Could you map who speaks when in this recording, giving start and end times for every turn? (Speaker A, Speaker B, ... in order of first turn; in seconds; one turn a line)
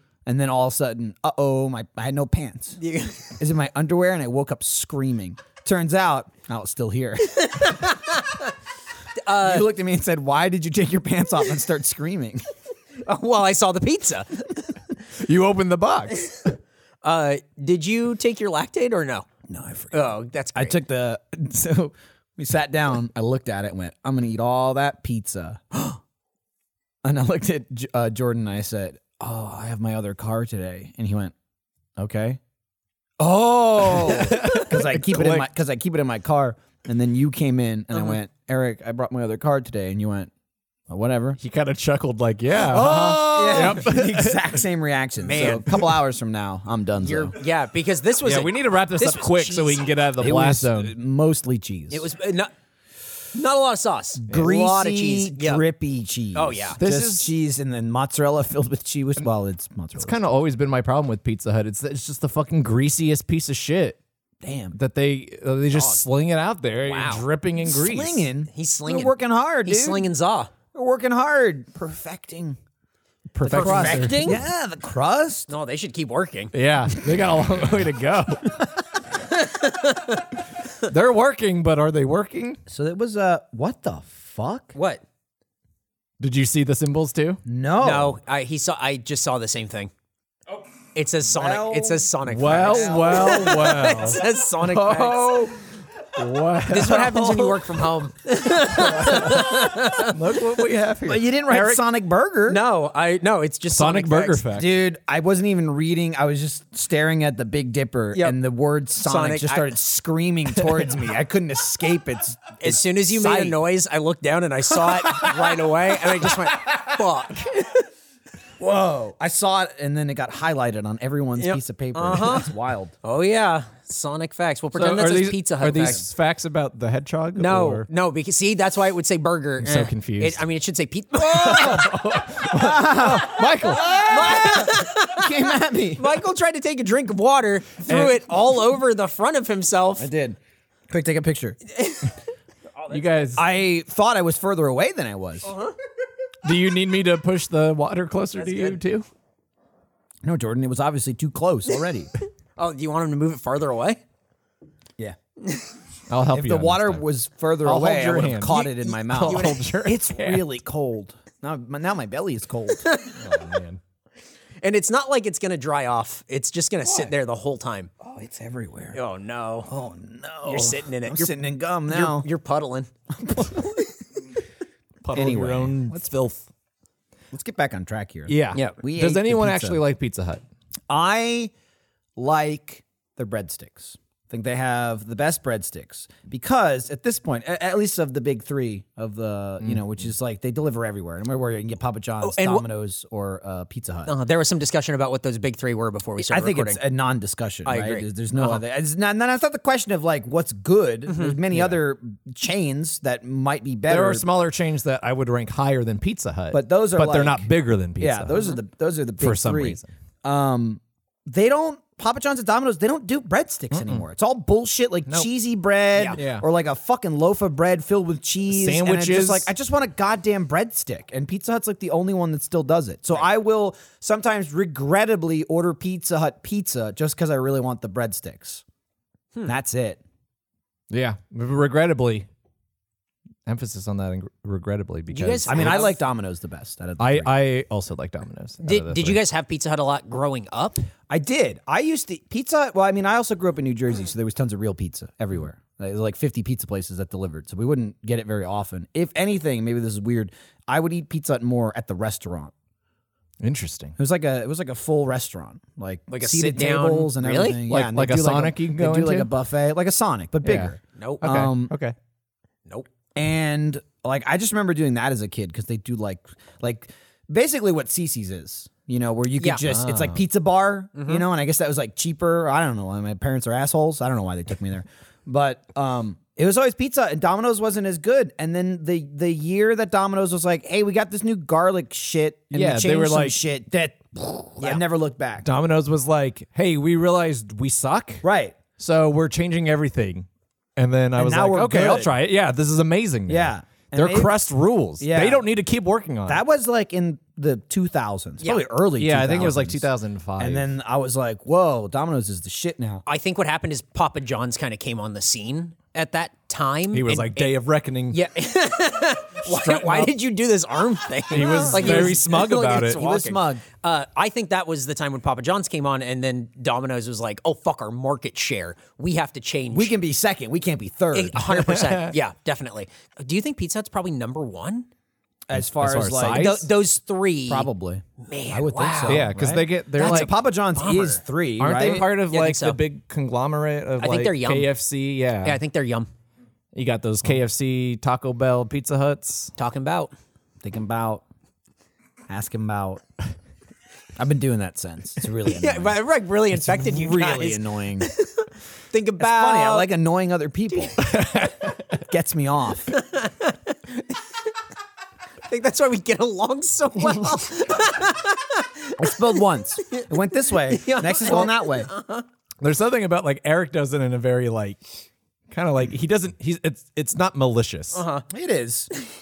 Speaker A: 0.2-2.8
Speaker B: 2.8-3.3
Speaker A: 3.4-7.8
Speaker B: 7.4-8.5
Speaker B: 9.2-9.6
Speaker A: 9.3-12.4
Speaker B: 13.0-14.7
Speaker C: 15.2-16.3
Speaker B: 17.0-19.3
Speaker A: 19.5-26.0
Speaker B: 19.9-20.7
Speaker A: 27.0-31.3
Speaker A: 32.0-32.4
Speaker A: 33.2-40.3
Speaker C: 34.0-35.5
Speaker B: 37.9-38.2
Speaker A: 40.9-41.4
Speaker C: 41.4-44.5
Speaker A: 42.6-47.3
Speaker B: 43.3-43.9
Speaker B: 45.2-45.9
Speaker B: 47.0-49.8
Speaker C: 48.2-50.9
Speaker A: 50.2-52.1
Speaker B: 51.9-52.5
Speaker B: 53.3-55.6
Speaker A: 54.2-60.2
Speaker B: 56.3-56.8
Speaker C: 56.8-57.3
Speaker C: 60.0-64.0
Speaker A: 64.4-64.8
Speaker C: 64.7-68.3
Speaker B: 65.7-66.0
Speaker B: 66.8-67.2
Speaker A: 67.6-70.1
Speaker B: 68.5-70.5
Speaker A: 70.7-72.6
Speaker C: 73.3-74.3
Speaker A: 73.4-75.5
Speaker B: 73.4-74.4
Speaker B: 75.5-76.5
Speaker C: 76.5-78.6
Speaker B: 79.3-80.3
Speaker C: 80.8-82.6
Speaker A: 82.7-84.8
Speaker B: 84.7-85.0
Speaker C: 86.2-87.4
Speaker A: 87.4-88.2
Speaker B: 87.8-89.9
Speaker B: 90.9-95.5
Speaker A: 91.3-93.5
Speaker C: 92.2-95.6
Speaker C: 96.1-97.6
Speaker B: 96.7-100.2
Speaker C: 98.8-101.3
Speaker A: 101.0-102.6
Speaker B: 101.5-101.8
Speaker B: 102.5-104.4
Speaker C: 103.7-104.7
Speaker A: 104.5-113.6
Speaker B: 109.0-109.7
Speaker C: 110.6-110.9
Speaker B: 112.6-117.9
Speaker A: 118.6-122.9
Speaker B: 121.4-122.5
Speaker B: 123.0-126.0
Speaker C: 124.7-127.9
Speaker B: 127.4-131.9
Speaker C: 129.6-130.4
Speaker A: 131.2-136.2
Speaker C: 131.3-134.0
Speaker B: 133.7-140.1
Speaker C: 137.8-138.2
Speaker A: 140.0-140.4
Speaker A: 140.9-141.6
Speaker B: 141.8-142.1
Speaker B: 142.8-143.2
Speaker C: 142.9-143.4
Speaker A: 143.3-145.5
Speaker B: 145.4-145.7
Speaker C: 146.4-149.1
Speaker B: 148.4-148.8
Speaker A: 150.2-152.1
Speaker B: 152.6-154.0
Speaker C: 156.1-157.0
Speaker A: 156.3-162.9
Speaker C: 157.6-160.4
Speaker B: 158.6-159.6
Speaker B: 162.8-163.2
Speaker C: 163.2-163.8
Speaker B: 164.6-167.9
Speaker A: 166.8-167.1
Speaker A: 168.0-169.0
Speaker B: 168.9-169.7
Speaker A: 169.7-172.3
Speaker B: 170.4-171.3
Speaker B: 171.9-172.9
Speaker A: 173.1-173.8
Speaker C: 175.0-176.4
Speaker A: 175.1-176.0
Speaker A: 177.3-179.8
Speaker C: 178.3-180.4
Speaker A: 180.9-181.5
Speaker A: 182.2-194.1
Speaker B: 192.2-192.7
Speaker B: 194.1-196.8
Speaker A: 196.3-204.2
Speaker B: 197.7-198.6
Speaker B: 201.1-201.4
Speaker C: 201.5-201.8
Speaker C: 203.9-208.3
Speaker A: 206.5-228.6
Speaker B: 208.3-208.6
Speaker C: 209.2-209.9
Speaker C: 213.7-214.0
Speaker C: 216.1-216.4
Speaker C: 218.5-219.5
Speaker A: 229.4-230.0
Speaker C: 230.9-232.3
Speaker C: 233.4-235.9
Speaker B: 235.1-236.0
Speaker A: 235.5-237.4
Speaker C: 237.0-239.2
Speaker B: 238.6-240.8
Speaker A: 241.1-252.5
Speaker C: 253.4-253.9
Speaker A: 254.0-261.7
Speaker B: 256.1-257.6
Speaker C: 257.7-259.3
Speaker C: 260.4-261.9
Speaker B: 260.9-261.3
Speaker A: 263.1-285.5
Speaker C: 269.6-270.2
Speaker B: 270.9-271.2
Speaker C: 282.5-283.4
Speaker C: 285.4-288.2
Speaker A: 288.2-288.5
Speaker C: 288.8-296.4
Speaker A: 291.1-292.1
Speaker A: 293.3-294.4
Speaker A: 295.0-295.5
Speaker A: 296.3-303.0
Speaker C: 299.0-300.7
Speaker B: 303.1-307.5
Speaker C: 306.9-308.2
Speaker B: 308.1-319.9
Speaker C: 309.4-310.1
Speaker C: 311.3-313.0
Speaker A: 311.4-313.6
Speaker A: 319.7-321.7
Speaker B: 321.1-324.9
Speaker C: 321.5-322.1
Speaker A: 325.5-326.6
Speaker C: 325.5-326.7
Speaker B: 326.2-327.7
Speaker A: 327.5-332.1
Speaker B: 328.2-329.3
Speaker C: 329.0-330.3
Speaker B: 329.9-331.2
Speaker C: 331.6-335.6
Speaker B: 332.3-332.8
Speaker B: 334.0-334.7
Speaker B: 335.4-336.1
Speaker C: 336.7-339.5
Speaker B: 339.6-340.1
Speaker A: 340.6-341.2
Speaker A: 342.3-343.0
Speaker A: 344.2-346.0
Speaker B: 345.4-349.9
Speaker A: 346.8-348.1
Speaker A: 349.2-351.1
Speaker C: 351.0-352.0
Speaker A: 352.0-352.9
Speaker B: 352.9-354.4
Speaker B: 355.5-359.2
Speaker A: 359.0-361.9
Speaker B: 359.9-362.2
Speaker C: 362.6-364.8
Speaker C: 365.5-368.1
Speaker B: 367.9-368.2
Speaker A: 368.3-368.9